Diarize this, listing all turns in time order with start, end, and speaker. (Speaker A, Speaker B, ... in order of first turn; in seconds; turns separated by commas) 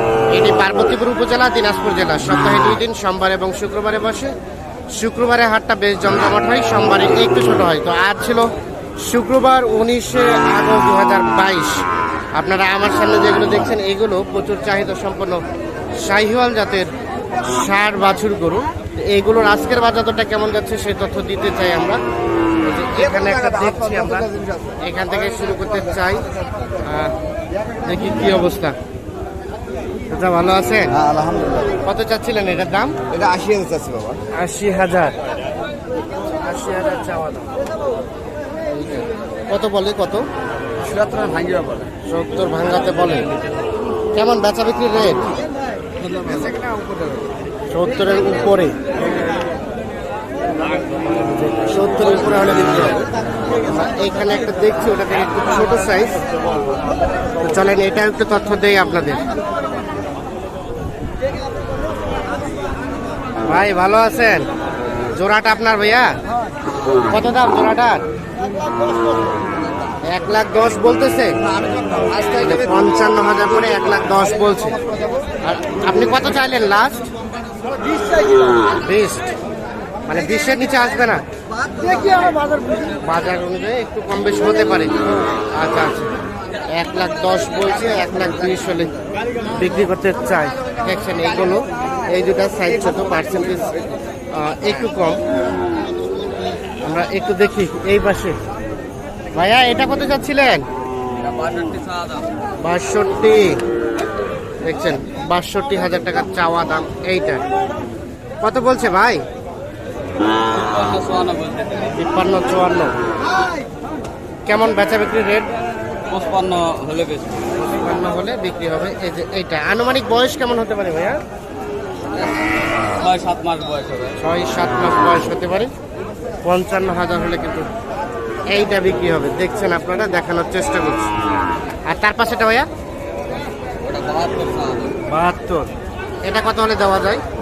Speaker A: 0.3-4.3, Speaker A: 4.9-8.5, Speaker A: 9.0-15.4, Speaker A: 16.0-22.0, Speaker A: 22.6-26.3, Speaker A: 26.8-27.1, Speaker A: 27.8-28.8, Speaker A: 30.1-31.0, Speaker B: 31.1-31.7, Speaker A: 31.8-33.0, Speaker B: 33.1-34.2, Speaker A: 34.3-35.2, Speaker A: 36.3-37.5, Speaker A: 38.7-40.3, Speaker C: 40.8-41.8, Speaker A: 42.1-43.3, Speaker A: 44.1-45.3, Speaker C: 46.1-46.5, Speaker A: 47.7-48.8, Speaker A: 51.4-53.0, Speaker A: 53.6-56.2, Speaker A: 57.4-59.2, Speaker A: 63.4-64.5, Speaker A: 65.1-66.1, Speaker A: 67.0-68.0, Speaker A: 70.1-71.4, Speaker A: 72.2-74.8, Speaker A: 75.4-77.1, Speaker B: 77.6-78.6, Speaker A: 78.7-79.3, Speaker A: 80.0-81.2, Speaker B: 81.7-82.9, Speaker A: 82.9-86.1, Speaker A: 86.7-88.9, Speaker A: 89.5-93.8, Speaker A: 94.3-95.2, Speaker A: 96.8-98.4, Speaker A: 99.3-100.6, Speaker C: 101.2-102.3, Speaker A: 102.6-103.6, Speaker A: 104.6-107.4, Speaker A: 108.4-109.2, Speaker C: 110.5-111.9, Speaker A: 111.9-112.9, Speaker A: 114.5-115.5, Speaker C: 116.1-117.6, Speaker A: 117.6-121.2, Speaker C: 122.1-124.2, Speaker A: 124.2-125.7, Speaker A: 126.4-127.7, Speaker A: 128.5-131.1, Speaker A: 131.8-132.7, Speaker C: 133.8-135.0, Speaker A: 135.1-135.7, Speaker A: 136.2-137.2